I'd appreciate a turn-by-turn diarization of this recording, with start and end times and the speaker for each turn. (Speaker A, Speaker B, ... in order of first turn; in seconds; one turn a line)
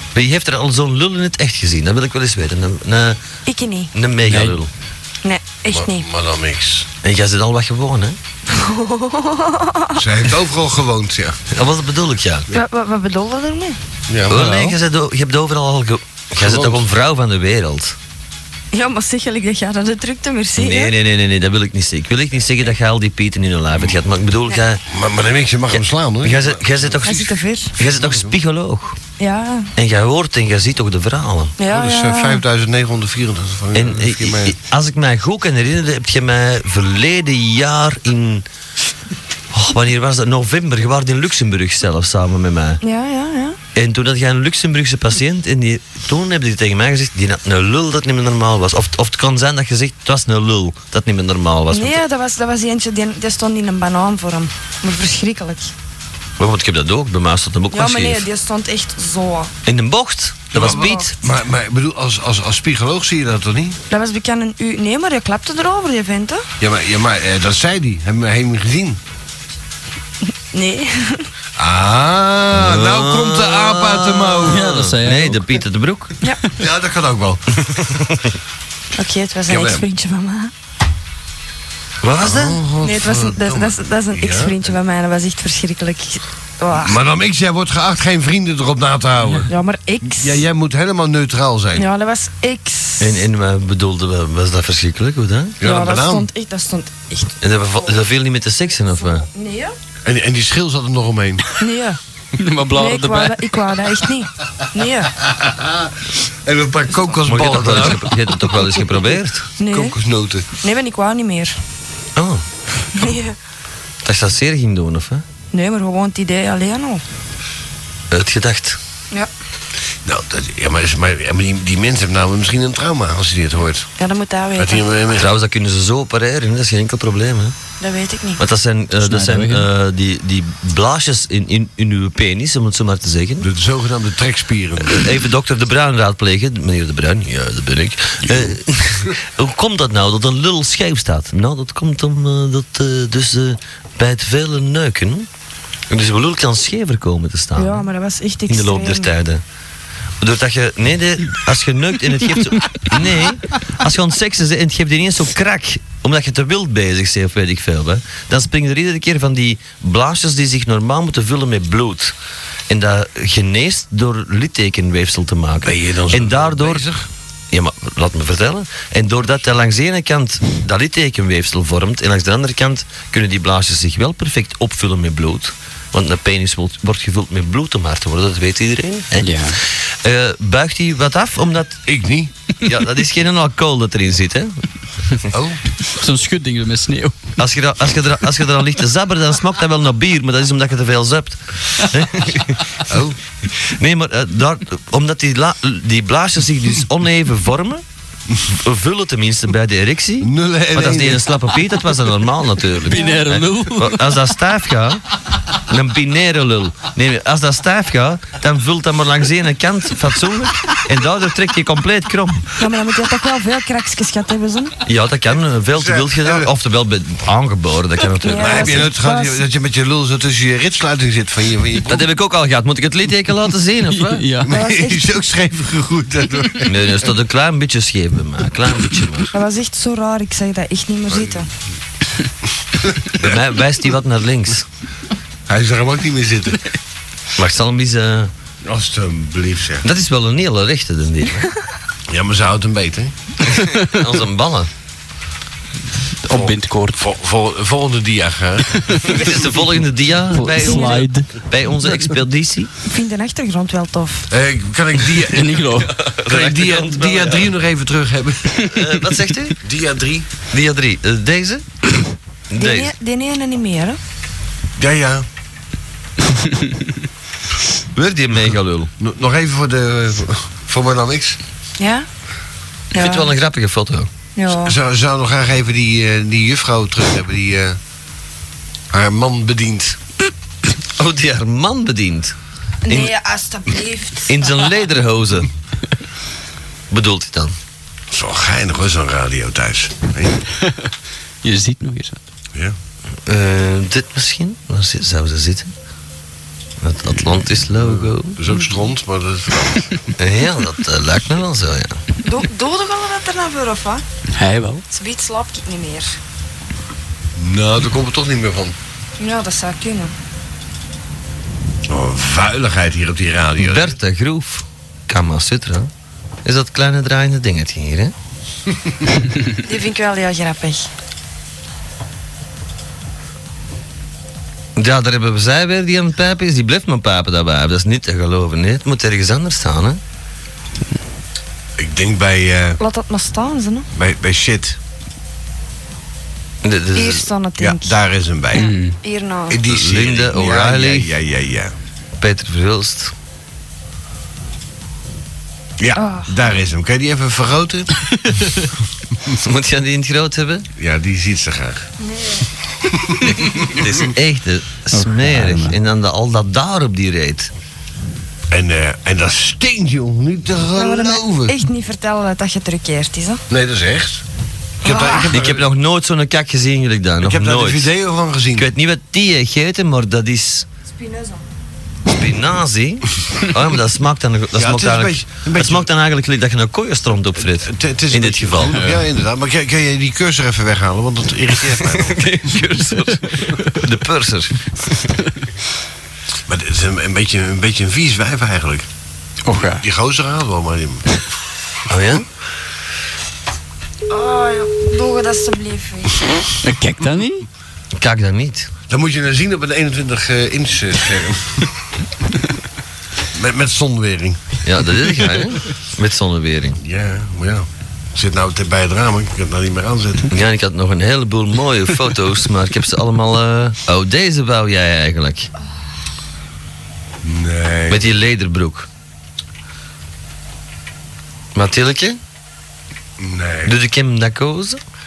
Speaker A: 0.1-3.2
Speaker B: 3.5-3.9
Speaker A: 3.9-4.7
Speaker C: 4.3-4.6
Speaker B: 5.2-6.0
Speaker D: 5.7-6.9
Speaker A: 7.0-8.2
Speaker B: 8.5-9.9
Speaker D: 10.0-11.4
Speaker A: 11.5-12.5
Speaker B: 12.5-13.8
Speaker D: 14.1-14.4
Speaker A: 14.3-18.0
Speaker C: 14.3-14.8
Speaker D: 16.4-16.8
Speaker B: 18.7-20.9
Speaker A: 20.6-24.8
Speaker D: 24.9-28.4
Speaker A: 25.7-29.0
Speaker B: 27.1-27.7
Speaker B: 29.2-29.7
Speaker A: 29.8-31.6
Speaker B: 31.6-32.4
Speaker D: 31.7-34.5
Speaker A: 33.7-38.5
Speaker A: 39.5-42.8
Speaker B: 42.8-43.6
Speaker A: 43.8-52.0
Speaker B: 51.7-55.7
Speaker A: 56.4-58.3
Speaker B: 57.7-59.5
Speaker A: 59.6-61.2
Speaker D: 60.5-63.8
Speaker B: 60.7-61.1
Speaker B: 63.9-66.4
Speaker D: 66.6-69.0
Speaker B: 70.5-71.2
Speaker D: 71.6-74.6
Speaker A: 72.5-76.2
Speaker C: 74.5-75.6
Speaker D: 76.5-78.0
Speaker B: 79.0-80.5
Speaker D: 79.5-79.9
Speaker A: 82.0-82.6
Speaker D: 82.2-84.7
Speaker B: 82.8-86.9
Speaker D: 86.7-89.5
Speaker B: 89.5-90.4
Speaker D: 90.0-91.9
Speaker B: 91.8-93.2
Speaker A: 93.0-95.6
Speaker D: 95.6-96.3
Speaker B: 95.7-97.3
Speaker A: 97.4-99.3
Speaker B: 98.9-99.7
Speaker D: 100.0-101.6
Speaker B: 101.6-102.0
Speaker C: 102.4-104.0
Speaker B: 102.8-105.1
Speaker D: 105.2-105.9
Speaker D: 106.5-108.7
Speaker A: 107.2-109.5
Speaker B: 109.6-110.0
Speaker D: 109.7-110.5
Speaker B: 110.6-111.6
Speaker A: 112.2-112.5
Speaker B: 113.0-113.4
Speaker A: 114.0-115.2
Speaker B: 115.5-117.0
Speaker A: 118.1-118.8
Speaker D: 120.0-123.9
Speaker B: 124.0-124.8
Speaker D: 124.6-125.3
Speaker A: 125.1-127.5
Speaker B: 127.8-128.4
Speaker A: 128.4-133.5
Speaker C: 129.0-129.7
Speaker D: 133.4-135.1
Speaker A: 134.8-145.3
Speaker A: 145.9-147.9
Speaker B: 147.6-149.1
Speaker A: 148.5-149.4
Speaker A: 150.2-162.1
Speaker A: 162.7-166.9
Speaker D: 165.6-167.1
Speaker A: 167.5-181.8
Speaker C: 179.2-179.6
Speaker D: 181.9-182.3
Speaker A: 182.6-184.6
Speaker D: 185.3-185.6
Speaker C: 185.9-187.2
Speaker A: 187.4-192.6
Speaker D: 192.9-193.2
Speaker A: 193.5-197.8
Speaker A: 198.5-205.0
Speaker D: 200.2-201.3
Speaker C: 202.9-204.2
Speaker A: 205.7-212.5
Speaker B: 212.6-214.7
Speaker A: 214.8-218.9
Speaker D: 215.7-216.5
Speaker B: 218.3-219.4
Speaker D: 218.4-222.1
Speaker A: 221.8-224.3
Speaker C: 223.9-224.6
Speaker D: 224.4-226.9
Speaker B: 224.6-225.1
Speaker A: 226.7-229.3
Speaker B: 229.3-231.5
Speaker D: 231.1-231.4
Speaker D: 233.0-233.4
Speaker A: 233.2-234.7
Speaker D: 235.5-236.8
Speaker A: 237.4-238.3
Speaker D: 238.6-239.9
Speaker A: 239.8-241.5
Speaker D: 242.1-243.1
Speaker A: 243.4-244.7
Speaker C: 243.6-244.0
Speaker C: 246.2-247.0
Speaker D: 246.3-249.3
Speaker C: 248.8-249.1
Speaker A: 249.0-252.7
Speaker C: 250.3-251.3
Speaker B: 252.9-254.3
Speaker D: 254.3-255.6
Speaker C: 255.3-256.0
Speaker A: 255.9-257.5
Speaker D: 256.3-258.6
Speaker A: 258.6-259.6
Speaker D: 259.6-260.3
Speaker A: 260.5-261.6
Speaker A: 262.5-262.9
Speaker B: 262.6-264.0
Speaker D: 264.8-265.3
Speaker A: 267.9-268.9
Speaker D: 269.0-271.4
Speaker B: 271.8-272.1
Speaker B: 272.9-273.2
Speaker A: 272.9-274.1
Speaker B: 274.4-274.7
Speaker D: 274.5-277.8
Speaker D: 278.9-280.0
Speaker A: 281.0-282.4
Speaker B: 282.9-284.5
Speaker A: 282.9-283.1
Speaker A: 284.3-285.5
Speaker A: 286.9-287.6
Speaker D: 288.1-290.4
Speaker C: 290.6-290.9
Speaker C: 291.4-292.2
Speaker A: 293.3-295.7
Speaker A: 296.8-298.4
Speaker D: 297.8-299.9
Speaker A: 300.2-302.0
Speaker B: 302.2-304.0
Speaker C: 304.4-304.8
Speaker B: 304.9-306.1
Speaker D: 307.4-308.8
Speaker B: 309.2-310.1
Speaker D: 311.9-314.0
Speaker A: 313.6-315.9
Speaker A: 316.4-318.1
Speaker B: 319.7-320.9
Speaker A: 324.8-330.0
Speaker D: 331.8-332.8
Speaker B: 332.8-333.9
Speaker D: 333.9-334.8
Speaker A: 336.6-337.3
Speaker B: 337.0-337.9
Speaker D: 337.6-338.7
Speaker C: 338.5-339.0
Speaker B: 339.0-339.6
Speaker D: 339.5-341.7
Speaker A: 339.6-341.1
Speaker A: 342.2-343.1
Speaker D: 345.8-348.0
Speaker A: 349.3-350.7
Speaker D: 350.8-351.9
Speaker D: 352.9-353.9
Speaker A: 353.2-357.5
Speaker C: 354.9-355.8
Speaker D: 358.5-361.6
Speaker B: 360.8-363.4
Speaker D: 363.5-364.2
Speaker D: 364.8-365.7
Speaker B: 364.9-365.2
Speaker A: 365.3-367.9
Speaker D: 367.2-368.7
Speaker A: 368.5-370.7
Speaker B: 371.0-371.4
Speaker A: 372.1-378.9
Speaker D: 374.6-375.9
Speaker D: 377.4-382.6
Speaker C: 378.7-379.0
Speaker A: 381.7-384.6
Speaker D: 386.5-388.9
Speaker C: 389.4-389.8
Speaker D: 389.8-391.1
Speaker A: 391.9-392.3
Speaker B: 394.1-396.2
Speaker C: 396.6-397.5
Speaker A: 397.9-398.7
Speaker D: 398.9-401.7
Speaker D: 403.4-404.6
Speaker A: 404.6-406.8
Speaker D: 406.8-410.3
Speaker A: 410.3-415.5
Speaker D: 417.2-418.1
Speaker A: 417.9-418.9
Speaker A: 421.6-422.2
Speaker D: 423.2-423.8
Speaker A: 423.6-424.8